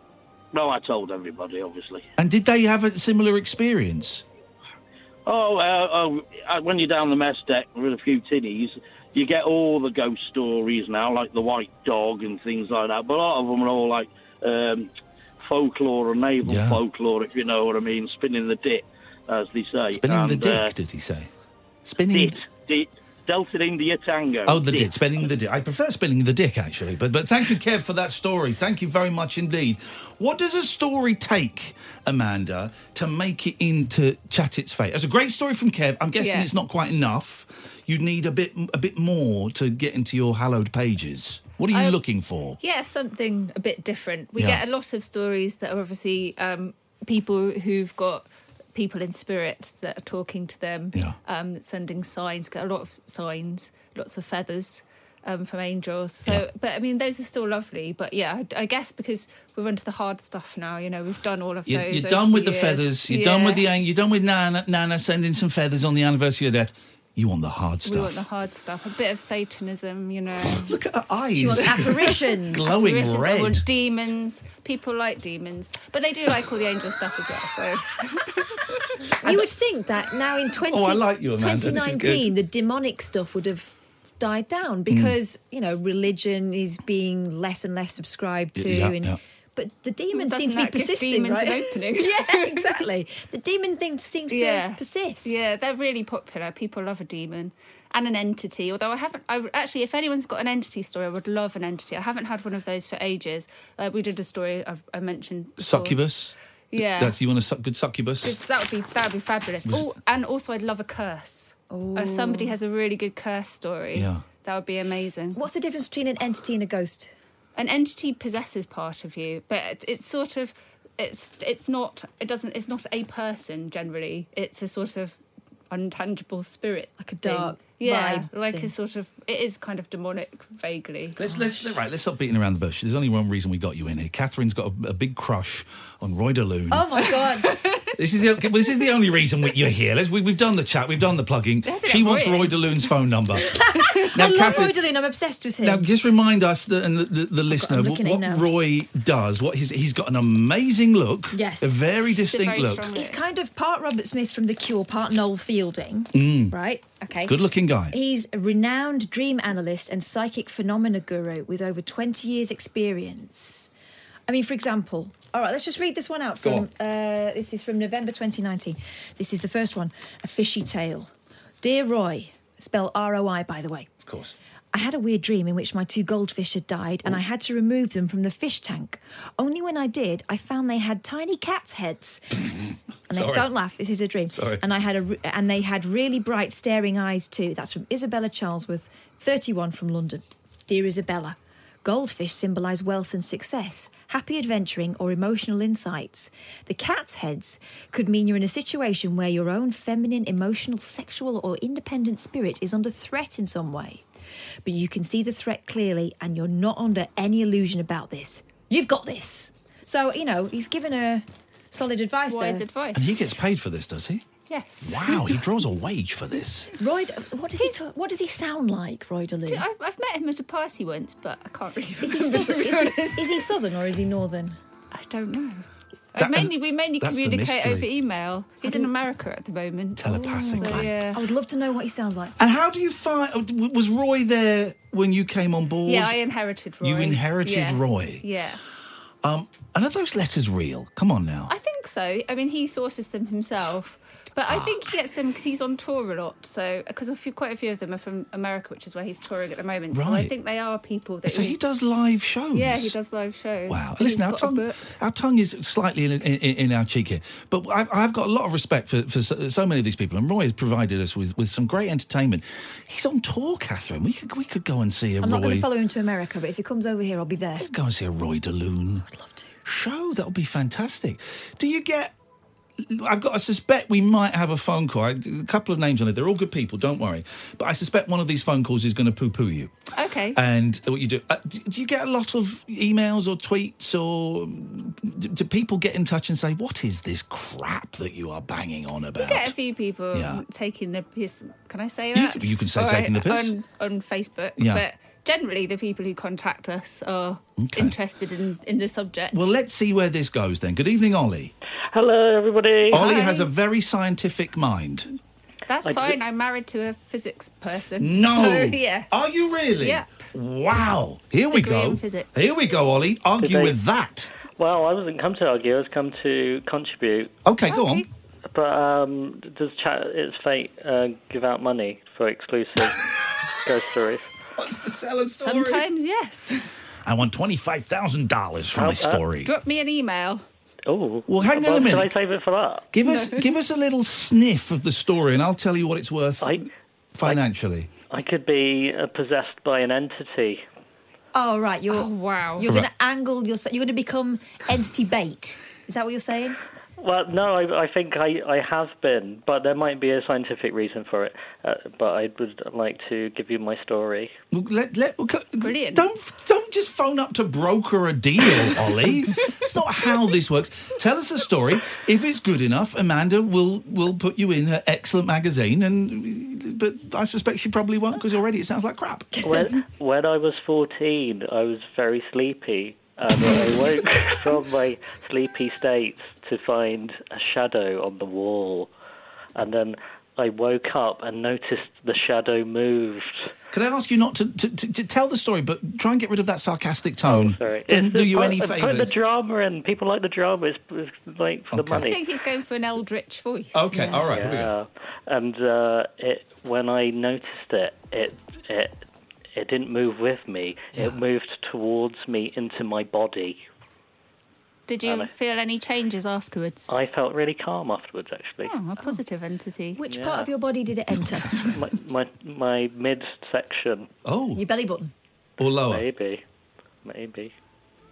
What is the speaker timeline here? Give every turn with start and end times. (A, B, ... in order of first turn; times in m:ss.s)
0:00.5-0:02.1 A
0:02.2-0:04.2 B
0:05.2-0:14.9 A
0:15.4-0:20.7 A
0:16.4-0:16.8 B
0:20.0-0:21.3 B
0:21.8-0:22.4 B
0:22.1-0:25.0 A
0:24.4-0:42.6 B
0:36.2-0:36.5 C
0:41.7-0:42.0 C
0:42.6-1:03.6 C
0:44.4-0:44.6 B
1:01.7-1:08.2 B
1:07.8-1:10.8 C
1:10.4-1:13.6 B
1:11.4-1:12.7 D
1:12.6-1:19.4 C
1:19.2-1:35.4 D
1:20.7-1:22.3 B
1:24.9-1:25.2 B
1:28.6-1:29.2 B
1:30.1-1:32.7 C
1:34.3-1:46.0 C
1:45.6-1:48.4 B
1:46.7-1:47.2 C
1:48.2-1:55.4 C
1:51.7-1:52.6 D
1:53.9-1:54.2 B
1:55.3-1:57.1 D
1:57.6-2:05.2 C
2:05.7-2:11.3 C
2:07.0-2:08.7 D
2:11.2-2:17.1 B
2:16.7-2:17.6 D
2:17.4-2:17.9 C
2:17.9-2:23.5 B
2:21.6-2:22.6 C
2:23.4-2:25.8 D
2:24.1-2:24.8 B
2:25.6-2:32.9 B
2:27.5-2:28.5 D
2:31.3-2:31.8 D
2:32.3-2:33.2 C
2:32.9-2:37.4 D
2:36.1-2:36.6 B
2:37.2-2:37.9 B
2:37.9-2:43.7 D
2:44.3-2:51.1 D
2:46.4-2:46.7 B
2:51.6-2:53.9 D
2:54.0-2:54.3 B
2:54.7-3:02.4 D
3:03.1-3:24.0 D
3:03.1-3:03.5 B
3:04.3-3:04.6 B
3:24.6-3:32.6 D
3:32.3-3:33.1 C
3:32.9-3:34.2 B
3:34.5-3:35.3 C
3:34.8-3:36.7 B
3:36.8-3:39.6 D
3:39.5-3:43.5 C
3:42.0-3:44.6 D
3:44.9-3:51.2 C
3:46.2-3:47.9 B
3:48.6-3:48.9 D
3:50.0-3:50.9 B
3:50.1-3:52.3 D
3:52.4-3:56.2 B
3:55.8-3:58.6 C
3:56.8-3:58.2 B
3:59.2-4:01.5 B
4:01.5-4:11.6 C
4:04.5-4:04.8 B
4:09.9-4:10.3 B
4:11.2-4:12.9 B
4:12.5-4:14.9 C
4:13.7-4:25.7 B
4:25.2-4:27.7 D
4:27.6-4:29.0 B
4:29.0-4:29.5 D
4:29.6-4:32.1 B
4:32.8-4:39.7 B
4:39.9-4:40.4 C
4:40.3-4:49.5 B
4:49.2-4:59.4 C
4:50.1-4:50.4 B
4:52.1-4:53.5 B
4:54.6-4:54.8 B
4:57.6-4:57.9 B
4:59.3-5:01.5 B
5:01.9-5:03.1 E
5:02.9-5:03.5 C
5:02.9-5:05.1 B
5:05.6-5:09.1 C
5:05.8-5:06.2 E
5:08.0-5:14.3 B
5:09.8-5:10.2 C
5:11.5-5:12.6 C
5:13.4-5:13.8 E
5:14.5-5:17.3 E
5:17.4-5:18.0 B
5:17.7-5:18.1 C
5:18.5-5:23.0 E
5:23.6-5:24.3 E
5:24.6-5:25.8 B
5:25.4-5:26.7 C
5:27.0-5:29.5 B
5:28.7-5:29.2 E
5:29.4-5:30.4 C
5:30.9-5:32.9 E
5:31.3-5:32.1 B
5:32.9-5:37.9 B
5:33.0-5:33.5 C
5:36.4-5:36.7 E
5:38.1-5:40.6 E
5:41.3-5:46.6 D
5:41.9-5:42.6 C
5:42.6-5:42.9 B
5:47.0-5:54.3 E
5:54.5-6:09.4 B
5:55.6-5:56.1 C
6:09.4-6:09.8 D
6:09.4-6:18.9 E
6:19.6-6:23.5 E
6:23.7-6:29.2 B
6:27.2-6:32.2 E
6:31.7-6:32.1 B
6:32.0-6:34.1 C
6:33.7-6:34.7 B
6:33.9-6:34.3 D
6:34.1-6:39.0 E
6:39.6-6:43.6 E
6:40.9-6:41.2 B
6:44.9-6:46.9 C
6:45.0-6:45.3 E
6:46.9-6:48.7 E
6:48.6-6:50.0 C
6:50.0-6:51.8 D
6:50.1-6:50.5 E
6:51.1-6:51.8 B
6:51.7-6:54.1 E
6:54.2-6:54.6 B
6:54.5-6:55.1 D
6:55.6-6:56.0 B
6:55.9-6:56.4 E
6:57.0-6:57.5 E